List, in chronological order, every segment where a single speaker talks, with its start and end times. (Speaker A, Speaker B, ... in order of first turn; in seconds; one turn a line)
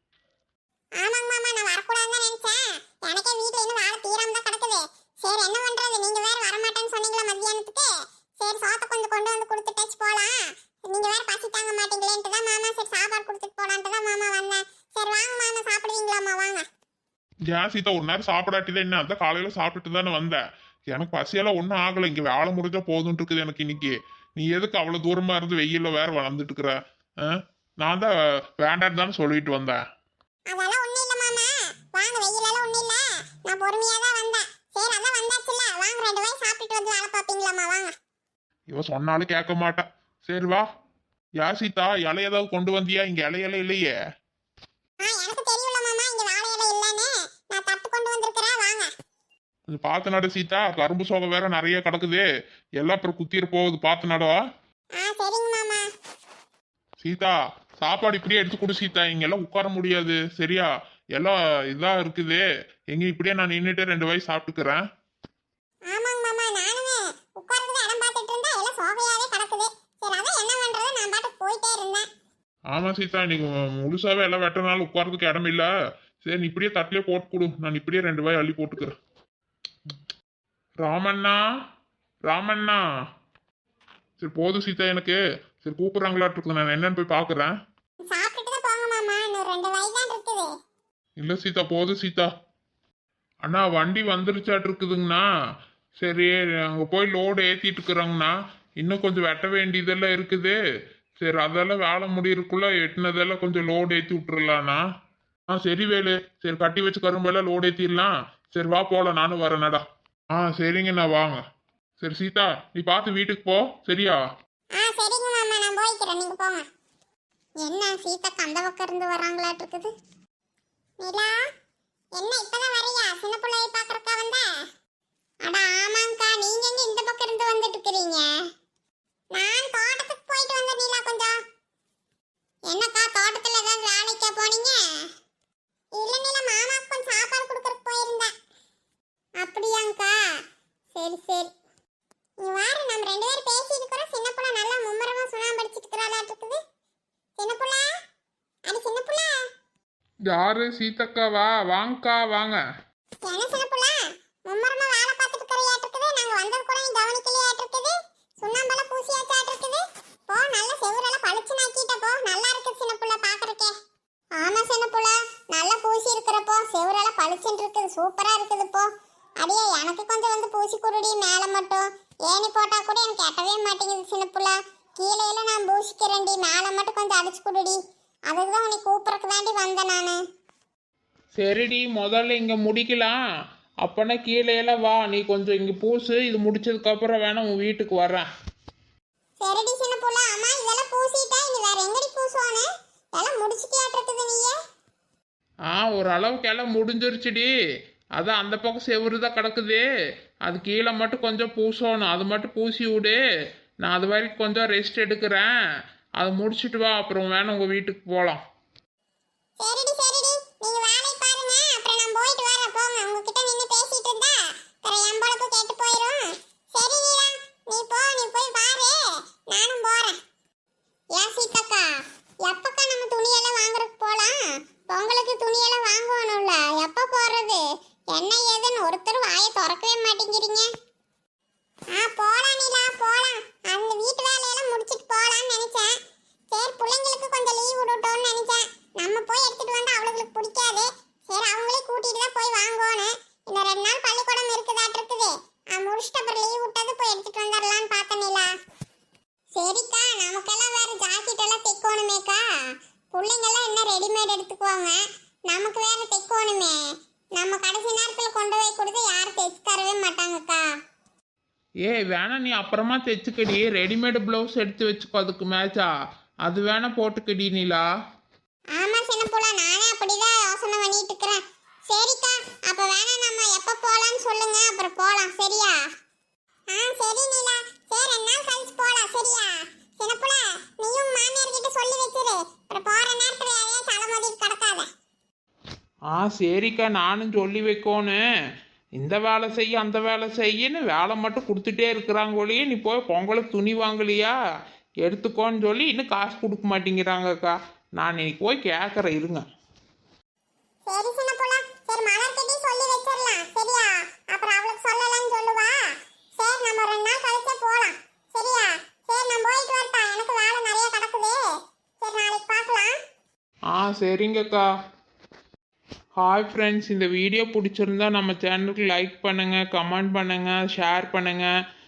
Speaker A: 1.0-16.6
Speaker B: 17.5-20.4
Speaker B: 20.9-29.8
Speaker A: 30.5-37.9
Speaker B: 38.7-40.6
Speaker B: 41.4-43.9
Speaker A: 45.0-48.9
Speaker B: 49.7-52.2
Speaker B: 52.8-54.4
Speaker A: 55.0-55.9
Speaker B: 57.0-64.8
Speaker A: 65.9-72.1
Speaker B: 72.7-75.7
Speaker B: 76.2-78.9
Speaker B: 80.8-81.4
Speaker B: 82.3-82.8
Speaker B: 84.2-87.5
Speaker A: 88.1-90.5
Speaker B: 91.2-92.3
Speaker B: 93.4-95.2
Speaker B: 96.0-100.6
Speaker B: 101.2-104.8
Speaker B: 105.5-109.8
Speaker B: 110.3-111.4
Speaker B: 112.0-114.2
Speaker A: 114.8-116.7
Speaker A: 117.6-119.9
Speaker A: 121.0-121.4
Speaker A: 122.1-124.5
Speaker A: 125.4-128.3
Speaker A: 129.3-131.3
Speaker A: 132.7-134.8
Speaker A: 135.9-138.3
Speaker A: 139.4-140.1
Speaker A: 140.9-141.5
Speaker A: 142.4-146.6
Speaker A: 147.4-147.9
Speaker A: 148.7-149.3
Speaker C: 150.3-152.6
Speaker A: 153.2-163.7
Speaker A: 164.4-168.9
Speaker A: 169.4-180.2
Speaker C: 181.4-183.2
Speaker C: 183.8-188.3
Speaker A: 189.4-194.6
Speaker C: 195.7-197.5
Speaker C: 198.2-199.8
Speaker C: 200.4-203.2
Speaker C: 203.8-205.5
Speaker C: 206.2-208.4
Speaker A: 209.6-220.2
Speaker A: 221.2-221.9
Speaker A: 222.4-230.7
Speaker A: 231.9-235.9
Speaker A: 236.5-248.5
Speaker A: 249.5-252.4
Speaker A: 253.1-256.8
Speaker A: 257.4-260.6
Speaker C: 261.8-265.9
Speaker C: 266.4-267.9
Speaker A: 268.8-275.8
Speaker A: 276.7-284.9
Speaker C: 286.1-288.2
Speaker C: 289.0-294.4
Speaker C: 295.0-299.4
Speaker A: 300.9-305.8
Speaker A: 306.4-311.4
Speaker A: 312.0-312.9
Speaker C: 313.7-314.6
Speaker C: 316.2-321.5